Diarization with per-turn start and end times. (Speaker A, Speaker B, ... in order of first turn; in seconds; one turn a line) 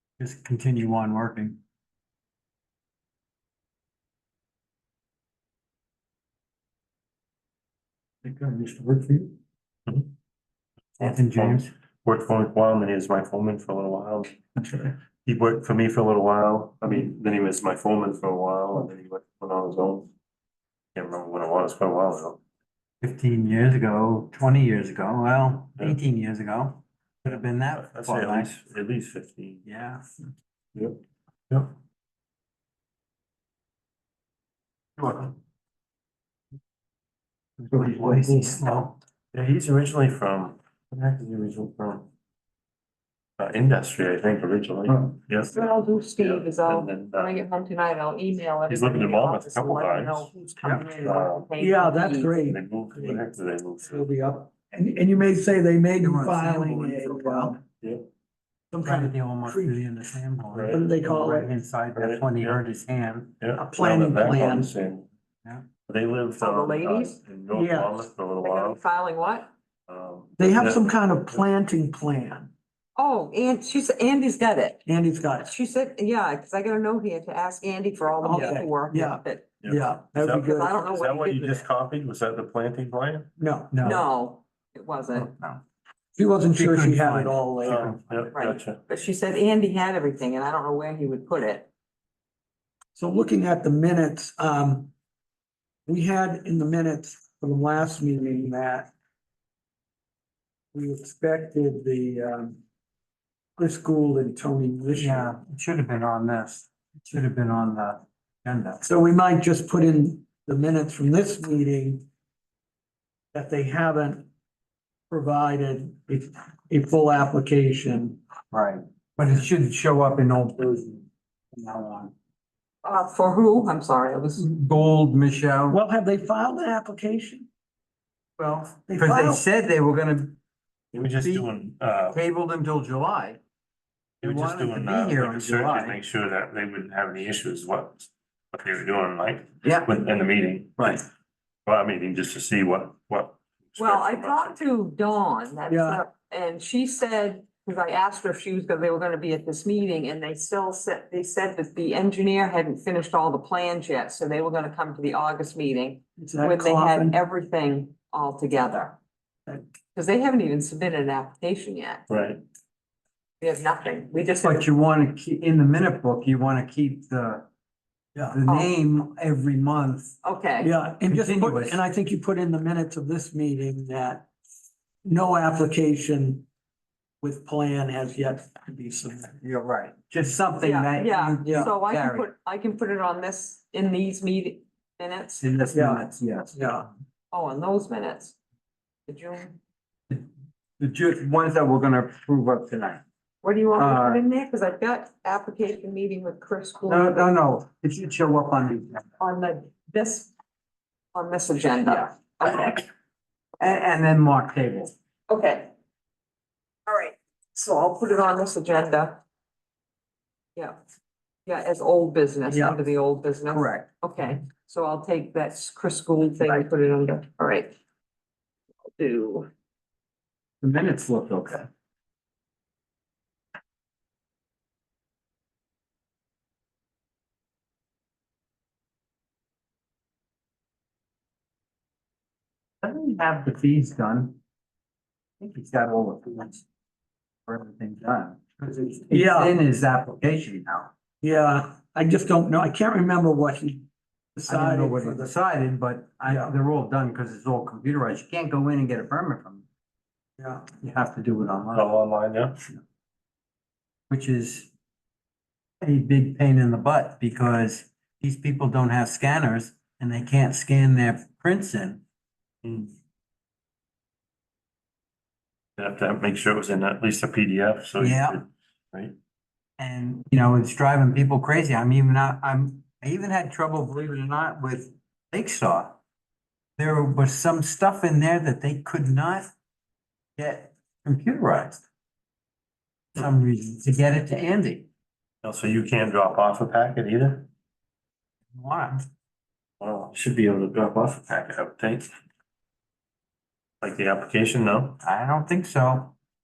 Speaker A: 0.2-1.6
Speaker A: 8.2-9.3
Speaker B: 9.9-10.1
Speaker B: 11.0-20.1
Speaker A: 11.0-11.7
Speaker B: 20.9-22.4
Speaker A: 23.0-28.6
Speaker B: 27.8-29.6
Speaker A: 29.6-30.0
Speaker B: 35.0-35.3
Speaker A: 37.6-39.0
Speaker C: 37.8-38.9
Speaker B: 39.3-42.1
Speaker B: 43.4-45.5
Speaker A: 44.9-45.1
Speaker D: 45.5-52.3
Speaker B: 46.2-47.4
Speaker B: 48.7-50.3
Speaker C: 50.7-53.2
Speaker B: 51.0-51.5
Speaker B: 52.4-54.1
Speaker C: 53.9-57.6
Speaker A: 56.0-57.6
Speaker C: 58.7-59.8
Speaker A: 58.8-63.4
Speaker B: 60.5-60.8
Speaker C: 60.7-61.5
Speaker B: 62.0-62.6
Speaker B: 63.4-65.1
Speaker C: 63.6-64.7
Speaker B: 65.9-68.8
Speaker D: 66.4-67.2
Speaker C: 67.5-68.0
Speaker D: 68.4-69.5
Speaker B: 69.9-71.4
Speaker C: 70.4-72.5
Speaker D: 73.0-74.8
Speaker C: 74.9-75.5
Speaker D: 75.4-79.5
Speaker C: 78.2-80.8
Speaker B: 79.6-83.3
Speaker D: 80.5-81.7
Speaker C: 83.4-83.9
Speaker A: 83.7-84.1
Speaker D: 83.8-85.3
Speaker A: 85.2-85.6
Speaker C: 86.2-88.0
Speaker A: 86.5-88.0
Speaker B: 87.6-88.8
Speaker D: 88.3-91.7
Speaker C: 93.0-94.9
Speaker C: 95.9-98.9
Speaker C: 100.7-102.6
Speaker C: 103.6-105.3
Speaker A: 105.0-108.8
Speaker C: 108.8-112.0
Speaker C: 113.3-114.3
Speaker C: 115.1-118.2
Speaker A: 118.5-122.1
Speaker D: 122.8-124.5
Speaker A: 124.4-125.8
Speaker C: 125.7-127.5
Speaker A: 128.4-130.4
Speaker C: 128.9-129.4
Speaker B: 130.9-132.2
Speaker A: 131.0-131.5
Speaker A: 132.1-133.4
Speaker B: 134.2-141.0
Speaker A: 134.2-136.0
Speaker A: 139.6-139.9
Speaker A: 140.8-141.0
Speaker B: 141.7-144.6
Speaker D: 143.8-159.0
Speaker C: 145.7-146.0
Speaker C: 156.2-157.2
Speaker D: 159.9-162.0
Speaker B: 162.1-162.4
Speaker D: 163.4-164.7
Speaker A: 164.4-167.4
Speaker A: 168.3-170.2
Speaker D: 168.5-168.8
Speaker D: 170.2-170.7
Speaker C: 170.6-174.3
Speaker A: 171.0-171.8
Speaker C: 175.1-176.5
Speaker C: 177.2-179.4
Speaker A: 179.4-182.3
Speaker D: 180.6-185.4
Speaker C: 181.4-181.7
Speaker A: 185.4-186.8
Speaker C: 185.7-186.9
Speaker D: 187.3-188.4
Speaker D: 189.1-189.6
Speaker A: 190.8-193.0
Speaker D: 193.4-197.3
Speaker A: 193.8-194.2
Speaker A: 196.9-199.1
Speaker D: 199.2-200.3
Speaker D: 201.1-202.9
Speaker A: 203.6-204.9
Speaker D: 205.3-205.7
Speaker D: 206.9-209.2
Speaker D: 211.5-217.8
Speaker C: 212.5-212.8
Speaker A: 213.5-213.9
Speaker D: 218.9-219.5
Speaker A: 220.6-221.7
Speaker A: 232.8-234.4
Speaker A: 235.4-236.6
Speaker A: 237.5-240.9
Speaker C: 239.1-239.6
Speaker C: 241.2-245.3
Speaker A: 244.5-249.7
Speaker C: 246.3-246.5
Speaker C: 250.4-250.7
Speaker A: 250.8-251.9
Speaker B: 251.7-252.6
Speaker A: 254.1-254.7
Speaker A: 255.8-262.0
Speaker B: 262.6-262.9
Speaker B: 265.8-269.1
Speaker A: 268.0-268.4
Speaker A: 269.8-276.0
Speaker A: 276.8-279.5
Speaker A: 280.4-281.8
Speaker A: 283.2-284.9
Speaker B: 285.4-287.5
Speaker A: 288.6-289.1
Speaker B: 289.8-292.1
Speaker B: 293.8-295.0
Speaker A: 295.0-296.1